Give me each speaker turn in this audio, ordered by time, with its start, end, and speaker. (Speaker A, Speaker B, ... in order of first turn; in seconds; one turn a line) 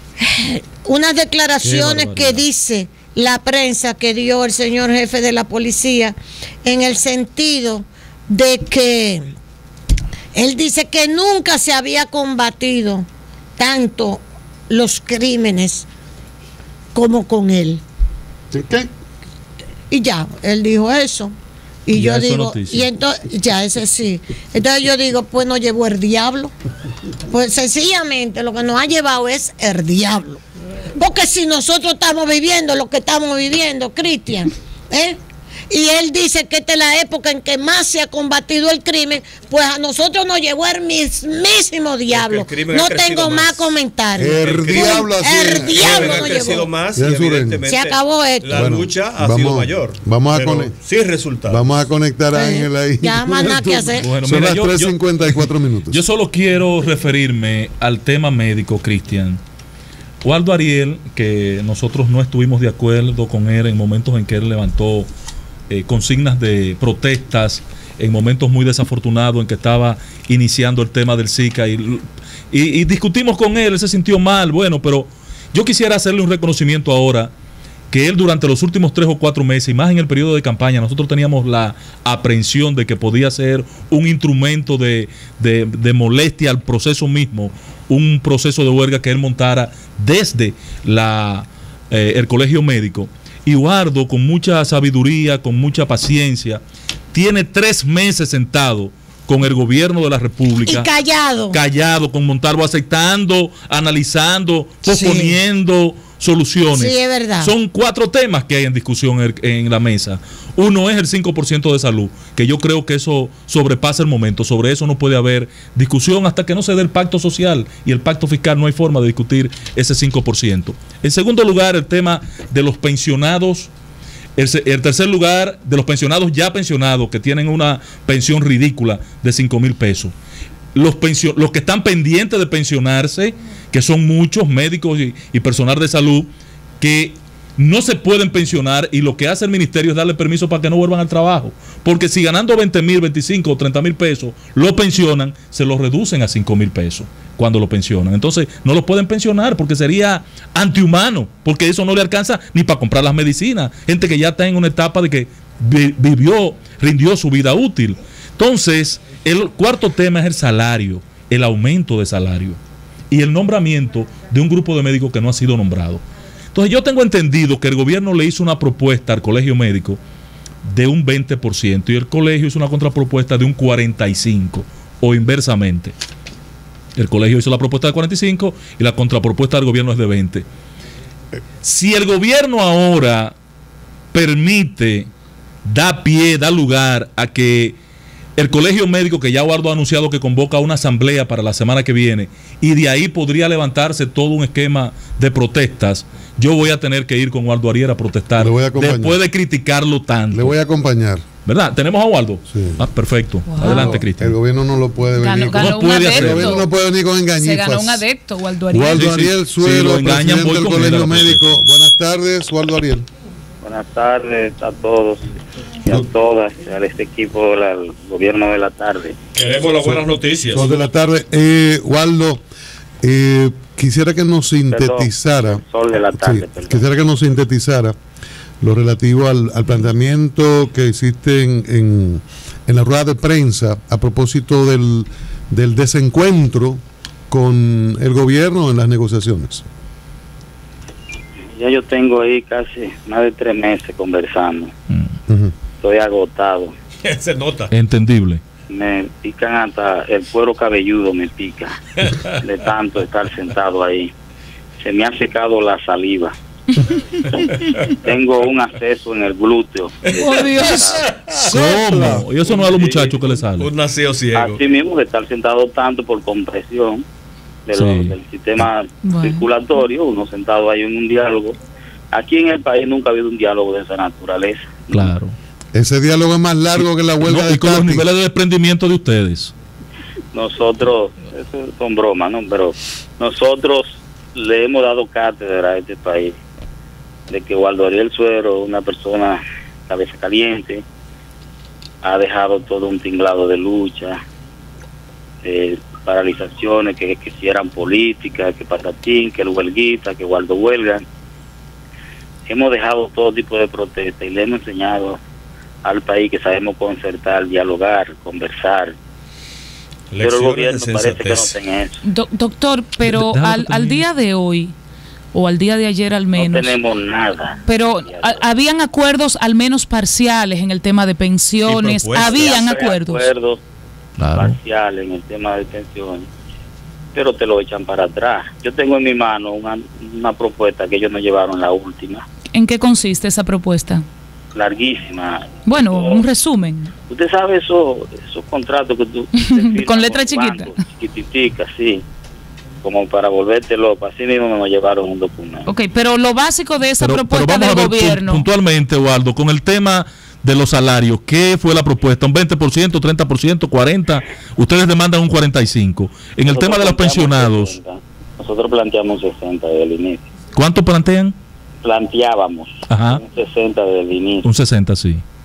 Speaker A: 0.2-9.3
Speaker B: 1.6-2.4
Speaker A: 10.3-13.1
Speaker A: 13.6-15.9
Speaker A: 16.9-17.8
Speaker C: 18.5-18.9
Speaker A: 19.9-21.3
Speaker A: 21.9-26.5
Speaker B: 21.9-22.9
Speaker A: 27.3-30.4
Speaker A: 30.9-35.2
Speaker A: 35.7-46.7
Speaker D: 42.1-43.8
Speaker C: 44.2-46.0
Speaker D: 44.4-51.7
Speaker C: 46.9-47.6
Speaker A: 47.6-48.6
Speaker C: 48.5-50.7
Speaker C: 51.5-56.0
Speaker A: 52.3-54.1
Speaker B: 54.0-59.4
Speaker B: 60.2-65.1
Speaker B: 65.7-77.3
Speaker B: 77.9-96.6
Speaker B: 97.1-100.9
Speaker A: 100.7-101.6
Speaker B: 101.5-123.7
Speaker A: 104.8-105.4
Speaker A: 106.7-107.5
Speaker B: 124.4-130.1
Speaker B: 130.8-162.6
Speaker B: 163.1-170.0
Speaker B: 170.7-175.9
Speaker B: 177.0-180.4
Speaker B: 181.6-183.3
Speaker B: 184.1-185.1
Speaker B: 185.7-187.8
Speaker B: 188.4-200.6
Speaker C: 198.4-199.2
Speaker C: 200.3-201.2
Speaker B: 201.4-204.3
Speaker C: 202.5-202.8
Speaker E: 203.5-204.0
Speaker C: 203.6-208.1
Speaker E: 205.2-206.7
Speaker B: 205.5-206.7
Speaker E: 207.3-209.1
Speaker C: 208.7-213.1
Speaker B: 208.9-211.6
Speaker F: 213.6-215.3
Speaker F: 215.8-219.2
Speaker D: 219.3-220.7
Speaker C: 219.8-222.4
Speaker C: 223.0-227.9
Speaker F: 224.7-226.9
Speaker C: 228.6-239.7
Speaker F: 241.6-244.7
Speaker C: 245.3-245.5
Speaker F: 245.8-246.7
Speaker D: 247.0-247.7
Speaker B: 247.7-248.4
Speaker F: 248.7-251.8
Speaker F: 252.3-254.1
Speaker F: 254.8-256.3
Speaker F: 257.8-261.0
Speaker E: 260.2-261.0
Speaker C: 261.3-262.4
Speaker B: 261.4-263.7
Speaker F: 262.6-263.1
Speaker D: 263.4-264.6
Speaker F: 264.3-267.0
Speaker F: 267.7-271.6
Speaker B: 267.7-268.1
Speaker E: 269.1-269.5
Speaker F: 272.1-275.1
Speaker B: 274.9-275.4
Speaker C: 275.7-278.1
Speaker B: 276.7-279.5
Speaker F: 280.3-286.4
Speaker F: 287.3-290.8
Speaker F: 292.0-294.2
Speaker F: 295.4-301.0
Speaker F: 302.5-305.2
Speaker F: 305.9-308.9
Speaker D: 310.1-311.6
Speaker F: 310.2-312.0
Speaker E: 312.0-314.7
Speaker B: 313.1-314.0
Speaker E: 315.3-316.8
Speaker F: 316.4-318.4
Speaker E: 317.6-323.3
Speaker D: 321.6-322.4
Speaker F: 322.1-323.6
Speaker B: 324.2-324.6
Speaker F: 324.4-326.3
Speaker F: 327.1-332.2
Speaker E: 332.5-334.1
Speaker F: 334.5-336.2
Speaker E: 335.6-336.9
Speaker F: 337.1-342.0
Speaker E: 339.3-340.8
Speaker F: 342.8-345.7
Speaker E: 345.6-348.5
Speaker B: 347.0-357.8
Speaker F: 356.5-360.3
Speaker B: 360.5-361.4
Speaker F: 361.8-364.5
Speaker B: 362.9-363.2
Speaker B: 364.4-365.2